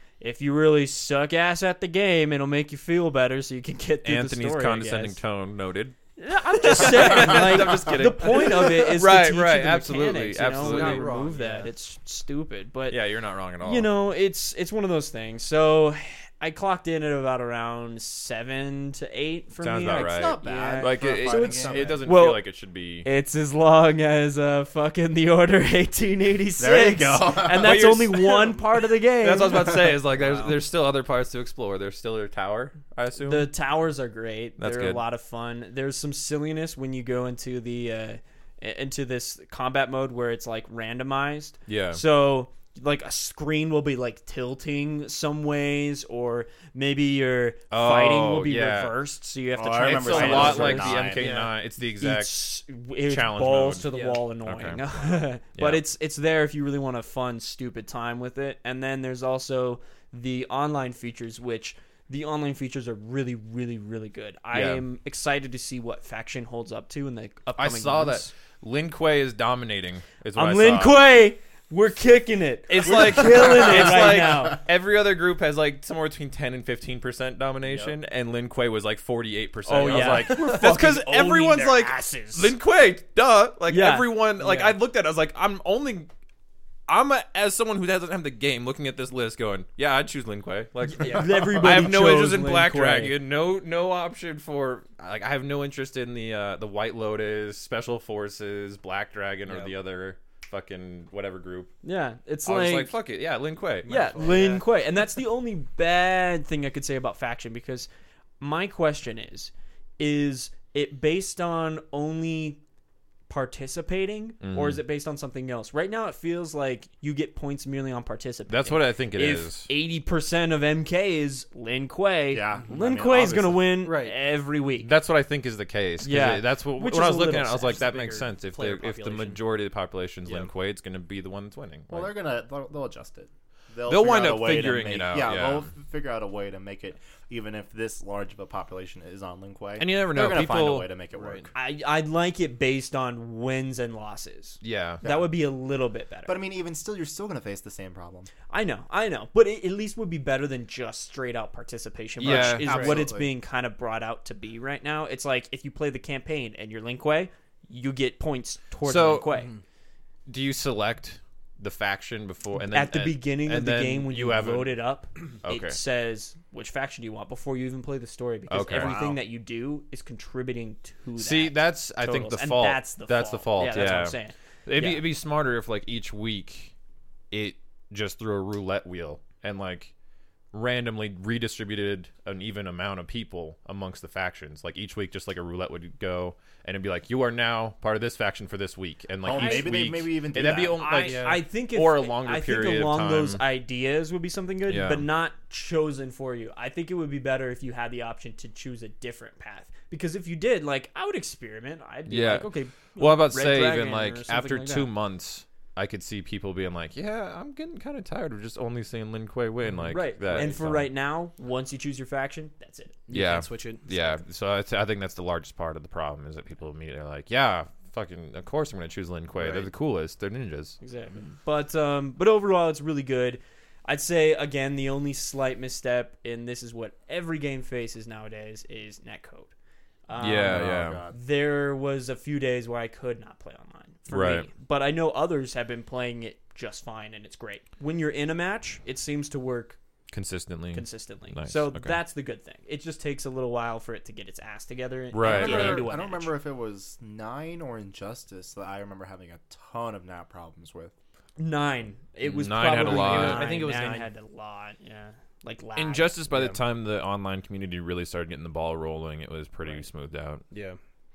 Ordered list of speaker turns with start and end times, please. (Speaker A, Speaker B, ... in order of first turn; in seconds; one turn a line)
Speaker A: 0.2-5.2
Speaker B: 4.0-6.0
Speaker A: 6.2-13.0
Speaker B: 6.6-11.2
Speaker C: 10.5-11.7
Speaker B: 12.9-13.9
Speaker A: 13.6-22.5
Speaker B: 19.6-23.1
Speaker D: 19.9-22.1
Speaker A: 23.0-30.6
Speaker D: 26.6-27.9
Speaker B: 27.5-33.5
Speaker A: 33.2-51.1
Speaker B: 34.6-35.0
Speaker B: 41.7-42.0
Speaker B: 47.7-49.0
Speaker D: 49.6-51.3
Speaker B: 49.8-52.5
Speaker C: 51.1-51.5
Speaker A: 52.0-68.3
Speaker B: 53.1-53.9
Speaker C: 53.9-54.2
Speaker B: 54.4-54.8
Speaker B: 55.5-55.8
Speaker B: 64.5-64.8
Speaker B: 67.6-71.0
Speaker A: 70.3-74.6
Speaker B: 72.7-86.1
Speaker D: 73.2-74.4
Speaker C: 77.7-77.9
Speaker A: 79.7-82.6
Speaker C: 79.8-80.2
Speaker A: 83.7-84.8
Speaker B: 86.9-101.7
Speaker A: 90.9-93.1
Speaker C: 91.0-91.3
Speaker C: 99.5-99.8
Speaker A: 101.8-103.0
Speaker B: 102.4-104.1
Speaker C: 103.8-104.7
Speaker A: 103.9-107.9
Speaker A: 108.4-112.6
Speaker A: 113.3-124.9
Speaker B: 114.4-114.8
Speaker B: 118.5-119.7
Speaker D: 122.3-123.8
Speaker C: 123.8-124.2
Speaker B: 124.8-132.1
Speaker A: 126.0-127.8
Speaker C: 127.7-129.4
Speaker C: 130.3-130.5
Speaker D: 131.9-141.5
Speaker B: 133.9-135.7
Speaker B: 139.8-140.9
Speaker C: 141.1-141.5
Speaker A: 141.6-146.4
Speaker B: 144.6-145.1
Speaker D: 145.0-145.3
Speaker D: 146.3-148.3
Speaker A: 148.5-159.5
Speaker B: 152.2-153.0
Speaker D: 152.2-153.3
Speaker C: 152.7-153.0
Speaker B: 158.8-159.4
Speaker C: 159.3-159.6
Speaker B: 160.3-164.8
Speaker A: 162.7-175.1
Speaker B: 165.4-165.8
Speaker B: 168.5-169.0
Speaker C: 168.7-169.2
Speaker B: 171.2-176.7
Speaker B: 177.3-179.9
Speaker B: 180.5-193.4
Speaker D: 189.2-190.9
Speaker A: 189.3-189.8
Speaker A: 190.8-204.9
Speaker C: 190.9-191.4
Speaker B: 194.7-195.1
Speaker B: 202.1-210.9
Speaker C: 209.7-210.6
Speaker A: 209.9-213.0
Speaker C: 213.1-214.2
Speaker B: 213.1-220.8
Speaker C: 219.4-219.7
Speaker A: 220.8-229.5
Speaker A: 230.1-239.8
Speaker B: 230.2-231.1
Speaker D: 230.2-231.2
Speaker B: 234.1-234.5
Speaker B: 240.1-242.0
Speaker A: 240.7-246.3
Speaker B: 245.1-245.9
Speaker D: 245.2-250.9
Speaker A: 251.4-256.1
Speaker B: 252.2-253.5
Speaker C: 252.7-254.1
Speaker B: 255.8-260.4
Speaker C: 256.3-256.6
Speaker C: 260.5-260.8